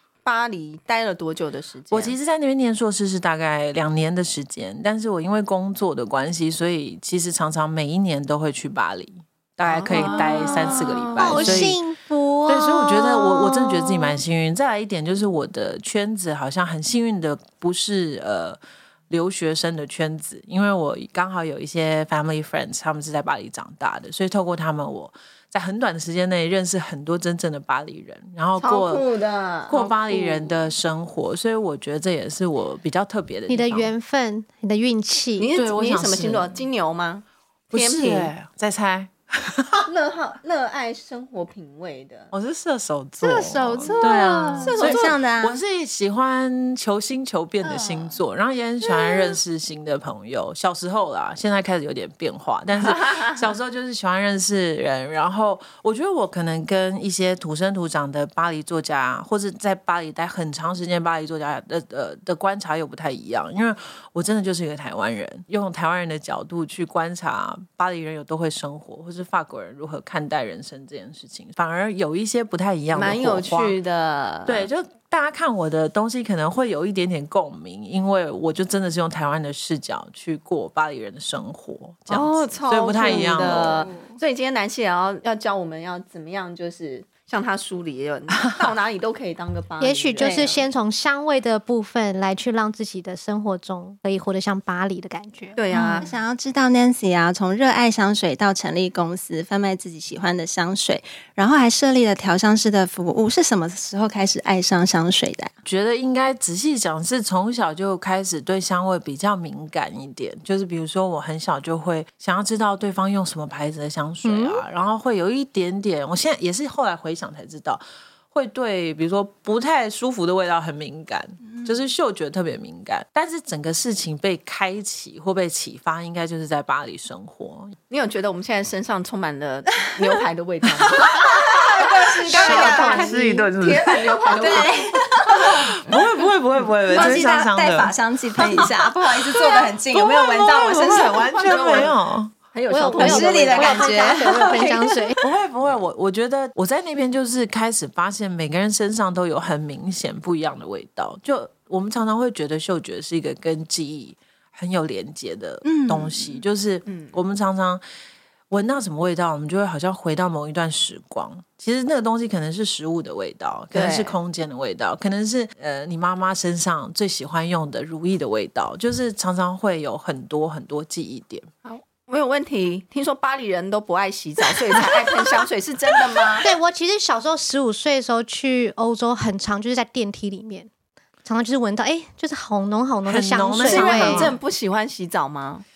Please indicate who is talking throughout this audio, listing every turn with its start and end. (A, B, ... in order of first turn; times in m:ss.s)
0:00.2-0:02.2 A
0:01.9-0:11.8 B
0:09.6-0:11.7 A
0:11.2-0:14.2 C
0:12.5-0:29.0 B
0:28.6-0:30.6 A
0:29.7-0:33.9 B
0:33.5-0:35.5 C
0:35.4-0:38.3 A
0:35.6-0:36.7 B
0:37.7-0:39.9 B
0:39.9-0:42.3 A
0:42.3-1:13.8 B
0:43.2-0:45.2 A
0:43.8-0:45.6 D
0:47.6-0:48.2 A
1:12.9-1:14.7 A
1:14.5-1:23.9 B
1:22.1-1:30.6 A
1:29.8-1:35.6 C
1:30.2-1:30.6 D
1:35.6-1:36.1 A
1:35.7-1:45.5 D
1:45.6-2:07.8 B
1:54.2-1:54.6 C
2:07.9-2:16.0 A
2:10.9-2:13.4 D
2:11.1-2:11.5 B
2:12.3-2:14.7 B
2:12.4-2:13.1 C
2:14.4-2:15.8 D
2:15.3-2:22.3 B
2:16.9-2:21.9 D
2:20.7-2:22.0 A
2:22.5-2:24.8 A
2:22.7-2:25.2 C
2:23.0-2:25.0 D
2:25.2-2:37.8 B
2:35.6-2:36.4 D
2:36.9-2:37.2 A
2:38.5-2:51.5 B
2:43.7-2:44.2 A
2:51.6-2:56.5 A
2:56.4-3:00.7 C
3:01.2-3:04.3 C
3:03.0-3:04.4 B
3:03.6-3:05.6 A